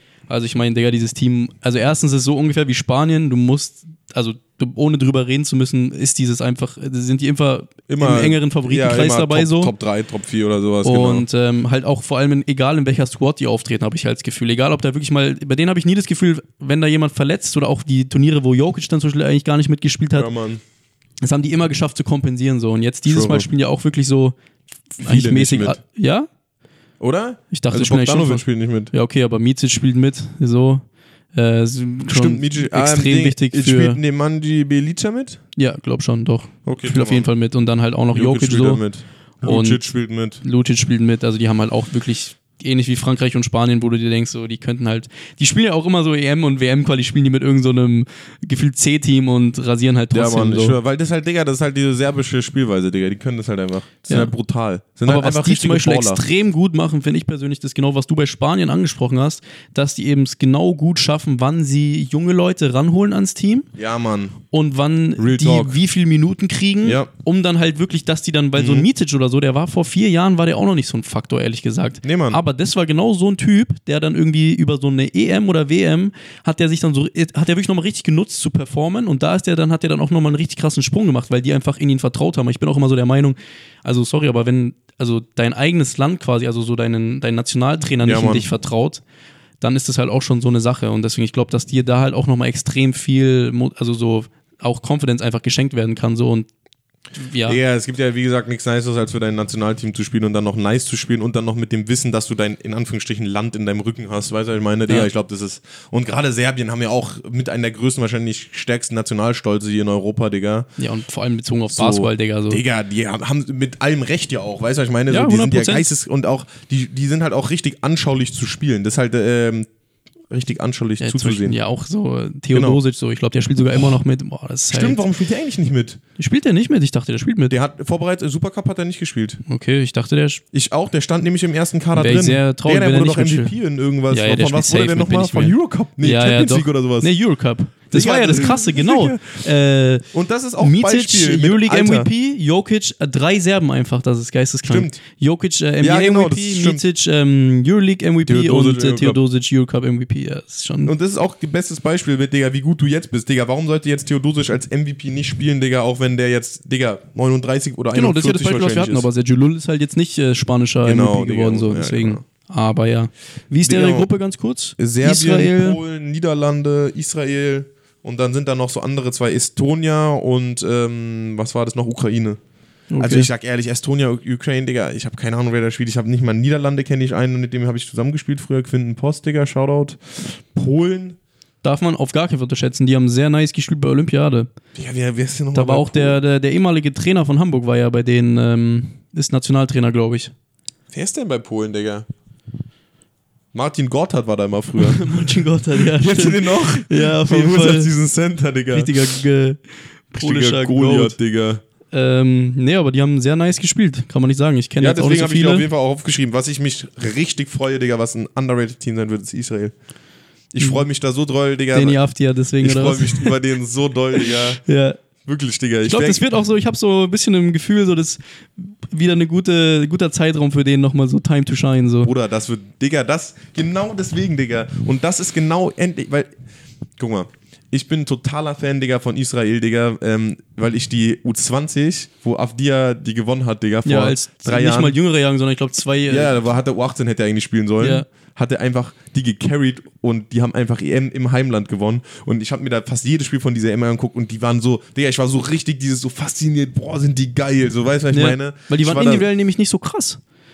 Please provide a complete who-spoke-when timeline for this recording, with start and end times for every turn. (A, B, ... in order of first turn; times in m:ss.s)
0:00.3-0:09.7 A
0:07.9-0:11.2 B
0:10.8-0:20.3 A
0:20.2-0:20.6 B
0:21.2-0:24.4 A
0:23.1-0:23.5 B
0:25.0-0:26.3 A
0:25.0-0:25.8 B
0:27.0-0:28.9 B
0:27.5-0:34.0 A
0:32.1-0:35.4 B
0:35.6-0:38.9 A
0:36.6-0:37.3 B
0:38.1-0:40.4 B
0:39.4-0:50.8 A
0:50.1-0:56.2 B
0:55.0-1:03.7 A
1:03.8-1:04.4 B
1:04.5-1:29.0 A
1:05.2-1:05.8 B
1:06.8-1:07.1 B
1:08.6-1:08.9 B
1:12.0-1:12.4 B
1:28.0-1:28.5 B
1:29.6-1:36.5 A
1:37.2-1:37.6 A
1:37.5-1:50.7 B
1:50.8-1:52.6 A
1:51.7-1:59.7 B
1:55.1-1:55.9 A
2:00.3-2:01.6 B
2:01.0-2:05.0 A
2:02.5-2:02.8 B
2:04.7-2:06.0 B
2:06.2-2:07.5 A
2:07.5-2:09.4 B
2:09.5-2:10.4 A
2:10.5-2:17.1 B
2:12.0-2:13.6 A
2:14.1-2:20.1 A
2:17.9-2:19.5 B
2:20.1-2:22.1 B
2:20.6-2:30.9 A
2:24.7-2:25.0 B
2:25.8-2:26.8 B
2:28.3-2:29.2 B
2:30.8-2:39.1 B
2:38.0-2:45.8 A
2:40.8-2:42.2 B
2:43.6-2:44.1 B
2:44.8-2:52.4 B
2:52.9-2:53.3 A
2:53.0-3:01.2 B
3:01.6-3:04.5 A
3:04.8-3:06.2 B
3:05.5-3:10.3 A
3:10.9-3:12.1 B
3:13.5-3:19.2 B
3:14.8-3:17.9 A
3:18.7-3:21.2 A
3:20.2-3:21.6 B
3:21.9-3:25.6 A
3:24.8-3:29.8 B
3:30.5-3:32.0 B
3:30.6-3:30.8 A
3:31.7-3:33.4 A
3:32.6-3:34.6 B
3:34.1-3:35.0 A
3:35.2-3:36.2 B
3:35.8-3:42.1 A
3:42.0-3:46.3 B
3:47.0-3:55.0 B
3:53.8-3:56.3 A
3:56.1-4:09.3 B
3:57.8-3:58.1 A
4:08.1-4:10.2 A